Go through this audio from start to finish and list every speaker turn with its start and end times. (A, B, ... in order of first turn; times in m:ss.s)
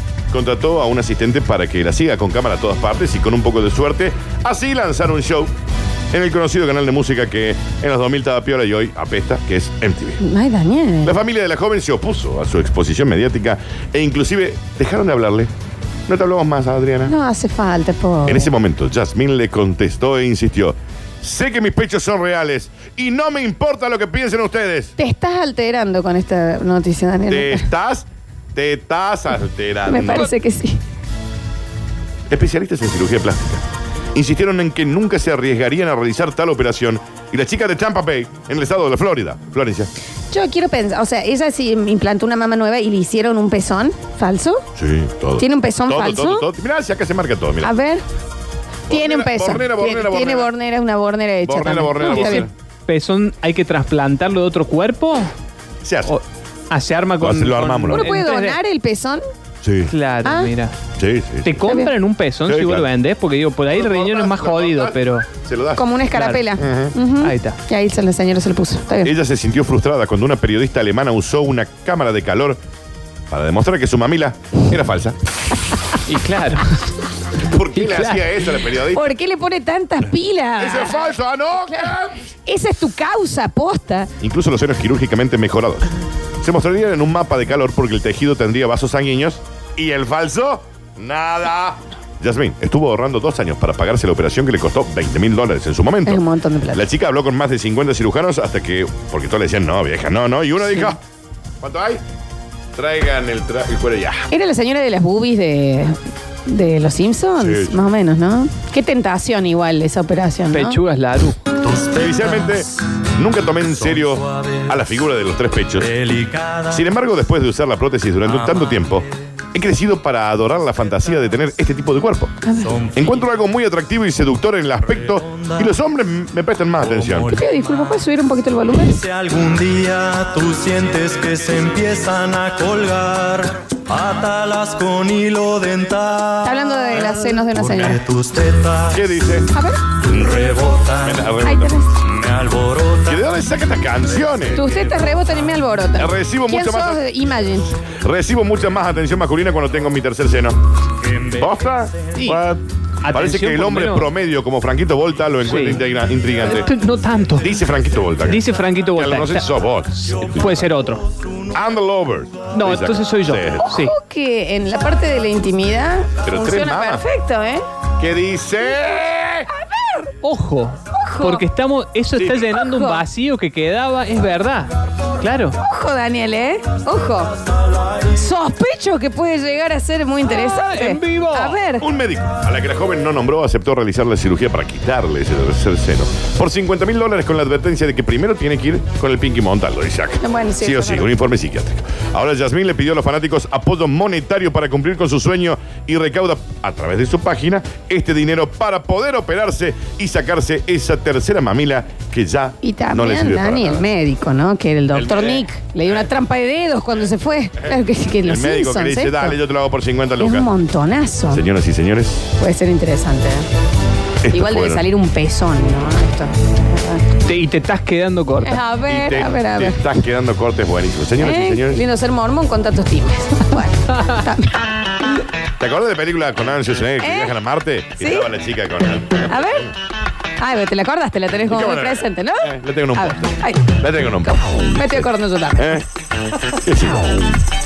0:00.3-0:05.5 A
0:06.1-0:10.2 A
0:10.2-0:11.2 B
0:11.0-0:15.5 A
0:16.1-0:17.1 A
0:17.0-0:18.5 B
0:18.3-0:24.9 A
0:25.0-0:27.7 B
0:27.3-0:30.3 A
0:29.9-0:30.8 B
0:32.3-0:39.9 A
0:40.3-0:44.6 B
0:44.8-0:47.7 A
0:45.4-0:46.5 B
0:47.6-0:48.0 B
0:48.9-0:50.5 A
0:48.9-0:52.5 B
0:51.4-0:52.5 A
0:52.0-0:55.3 C
0:55.8-0:56.1 A
0:56.1-0:58.6 C
0:57.2-0:58.1 A
0:57.9-0:59.2 B
0:59.6-0:59.9 A
0:59.9-1:00.7 C
1:00.2-1:00.5 B
1:01.0-1:01.6 A
1:01.4-1:05.3 C
1:01.6-1:01.9 B
1:02.5-1:02.9 A
1:03.7-1:05.8 A
1:05.8-1:09.1 B
1:06.1-1:06.6 C
1:06.6-1:07.0 A
1:07.2-1:07.6 C
1:09.0-1:12.6 A
1:13.3-1:15.2 A
1:16.1-1:16.6 C
1:17.3-1:19.1 A
1:17.7-1:18.3 C
1:18.9-1:21.1 B
1:20.6-1:22.2 A
1:21.6-1:21.9 B
1:22.4-1:24.1 B
1:24.2-1:41.0 A
1:36.1-1:36.8 B
1:41.6-1:42.0 A
1:42.8-1:44.3 A
1:44.3-1:50.8 B
1:47.4-1:47.8 A
1:50.5-1:51.4 C
1:51.7-1:52.5 D
1:51.9-1:56.0 A
1:55.9-1:56.7 D
1:56.7-2:02.4 A
2:02.4-2:02.8 B
2:02.9-2:07.3 A
2:07.0-2:07.3 D
2:07.3-2:09.0 B
2:09.0-2:19.0 D
2:16.4-2:18.0 B
2:18.9-2:19.5 A
2:19.5-2:19.8 B
2:20.0-2:21.2 D
2:21.0-2:21.7 A
2:21.4-2:21.9 B
2:22.1-2:23.2 D
2:23.0-2:24.7 A
2:24.5-2:27.8 B
2:26.0-2:27.0 A
2:27.8-2:30.6 A
2:31.2-2:36.7 A
2:32.2-2:32.4 C
2:33.0-2:34.1 C
2:35.4-2:35.8 C
2:36.5-2:37.5 C
2:37.4-2:40.5 A
2:38.3-2:39.5 C
2:40.0-2:41.1 C
2:41.5-2:43.7 A
2:42.5-2:43.9 C
2:43.6-2:47.6 B
2:46.2-2:47.0 A
2:48.0-2:49.5 A
2:49.5-2:50.1 B
2:50.2-2:55.6 C
2:50.9-2:51.4 B
2:52.2-2:52.5 A
2:52.5-2:53.0 B
2:55.6-2:57.4 B
2:58.0-3:01.8 B
3:00.3-3:01.6 C
3:01.8-3:23.9 A
3:10.2-3:11.1 B
3:22.6-3:29.4 B
3:24.9-3:26.1 A
3:27.5-3:30.5 A
3:30.2-3:31.4 B
3:31.3-3:32.3 A
3:32.4-3:33.5 B
3:34.2-3:34.8 A
3:34.3-3:37.0 B
3:37.2-3:38.6 C
3:38.4-3:40.0 B
3:38.8-3:41.8 A
3:41.2-3:44.6 B
3:45.6-3:49.7 A
3:47.0-3:47.3 B
3:48.0-3:48.3 B
3:49.2-3:49.7 B
3:50.4-3:55.8 B
3:51.4-3:55.8 A
3:56.6-3:57.3 A